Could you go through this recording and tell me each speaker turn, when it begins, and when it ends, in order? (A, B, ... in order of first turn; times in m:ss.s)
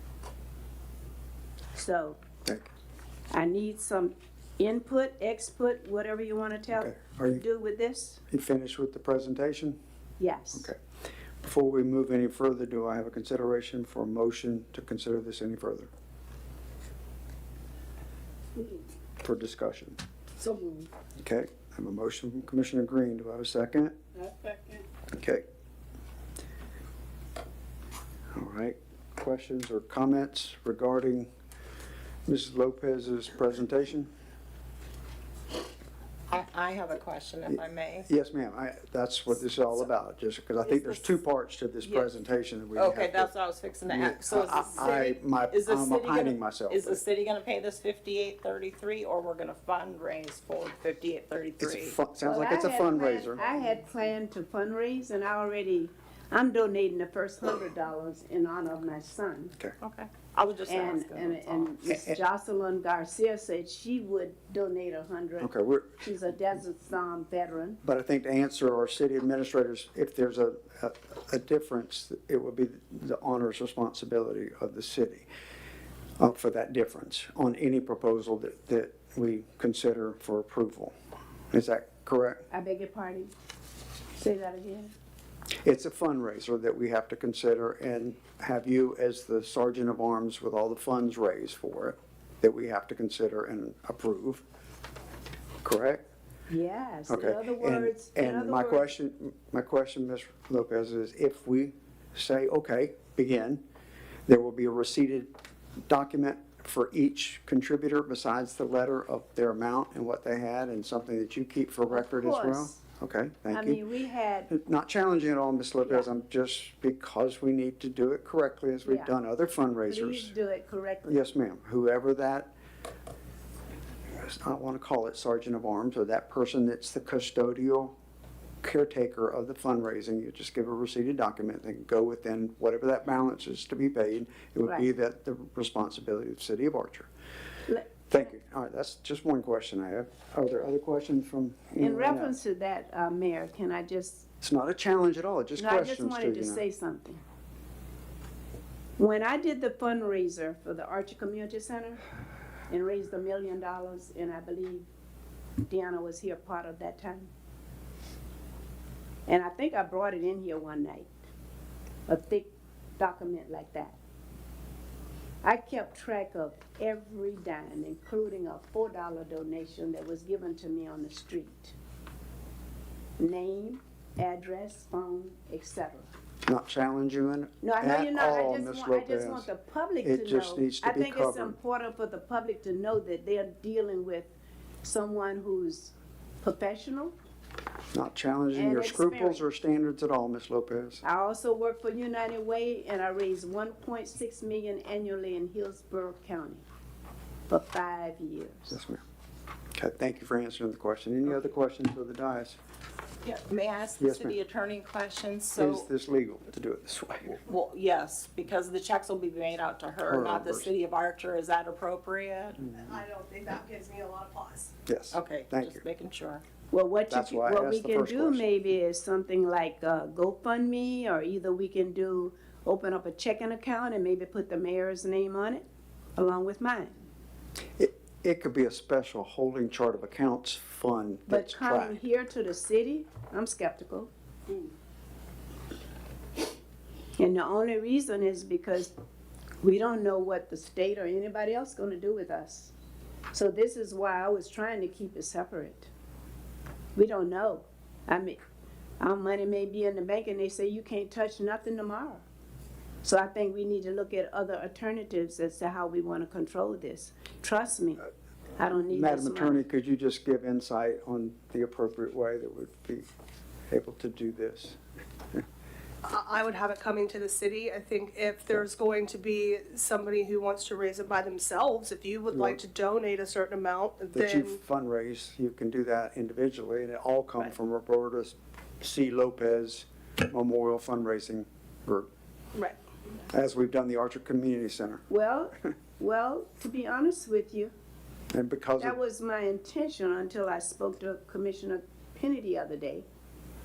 0:01.7-0:02.2 A
0:03.3-0:08.2 A
0:06.7-0:07.4 B
0:08.3-0:09.8 B
0:10.2-0:10.7 A
0:11.4-0:15.9 B
0:19.2-0:20.0 B
0:20.4-0:20.9 C
0:21.2-0:24.0 B
0:24.2-0:24.8 C
0:25.1-0:25.4 B
0:28.3-0:31.3 B
0:32.2-0:34.1 B
0:36.3-0:38.1 C
0:37.5-0:43.3 B
0:40.6-0:41.1 C
0:42.7-0:52.0 C
0:43.9-0:47.0 B
0:51.6-0:53.4 B
0:52.2-0:59.6 A
0:59.8-1:01.7 C
1:00.7-1:07.8 A
1:01.9-1:02.2 B
1:05.4-1:06.0 B
1:07.8-1:15.3 B
1:16.2-1:20.9 B
1:21.5-1:22.4 B
1:22.5-1:23.3 A
1:24.2-1:24.9 A
1:25.6-1:34.4 B
1:35.6-1:36.0 B
1:36.5-1:38.9 A
1:37.1-1:43.6 B
1:44.3-1:45.3 B
1:45.9-1:53.8 B
1:51.9-1:52.8 A
1:53.5-1:54.5 A
1:54.5-2:00.3 B
1:58.8-1:59.1 A
1:59.9-2:01.3 A
2:01.1-2:02.5 B
2:04.2-2:08.0 B
2:08.6-2:17.1 B
2:17.7-2:18.0 A
2:18.1-2:22.3 B
2:21.8-2:24.3 A
2:24.4-2:26.6 B
2:25.6-2:27.2 A
2:29.0-2:32.0 A
2:32.7-2:34.9 A
2:35.6-2:37.3 A
2:39.3-2:41.1 A
2:42.1-2:44.0 A
2:45.4-2:51.8 A
2:53.2-2:56.1 A
2:56.5-2:59.5 B
2:57.6-3:04.3 A
3:00.0-3:01.6 B
3:04.8-3:07.2 A
3:07.9-3:11.0 B
3:08.5-3:09.4 A
3:11.0-3:16.6 A
3:17.5-3:18.8 A
3:18.7-3:19.0 B
3:19.7-3:22.6 B
3:23.2-3:25.9 C
3:24.0-3:24.4 B
3:25.6-3:27.4 B
3:27.3-3:32.6 C
3:30.0-3:30.7 B
3:32.7-3:34.7 D
3:34.9-3:35.8 B
3:35.1-3:36.4 C
3:36.7-3:47.0 A
3:37.1-3:38.5 B
3:47.8-3:52.0 B
3:51.3-3:54.1 A
3:57.2-3:58.9 A
3:59.6-4:02.7 A
4:03.3-4:05.9 A
4:07.0-4:08.4 A
4:09.0-4:12.2 A
4:13.0-4:19.6 A
4:18.9-4:23.1 B
4:23.7-4:24.8 B
4:26.0-4:34.6 D
4:32.3-4:32.6 B
4:34.1-4:42.1 B
4:43.3-4:45.1 B
4:45.1-4:47.7 A
4:48.3-4:49.0 B
4:48.8-4:53.1 A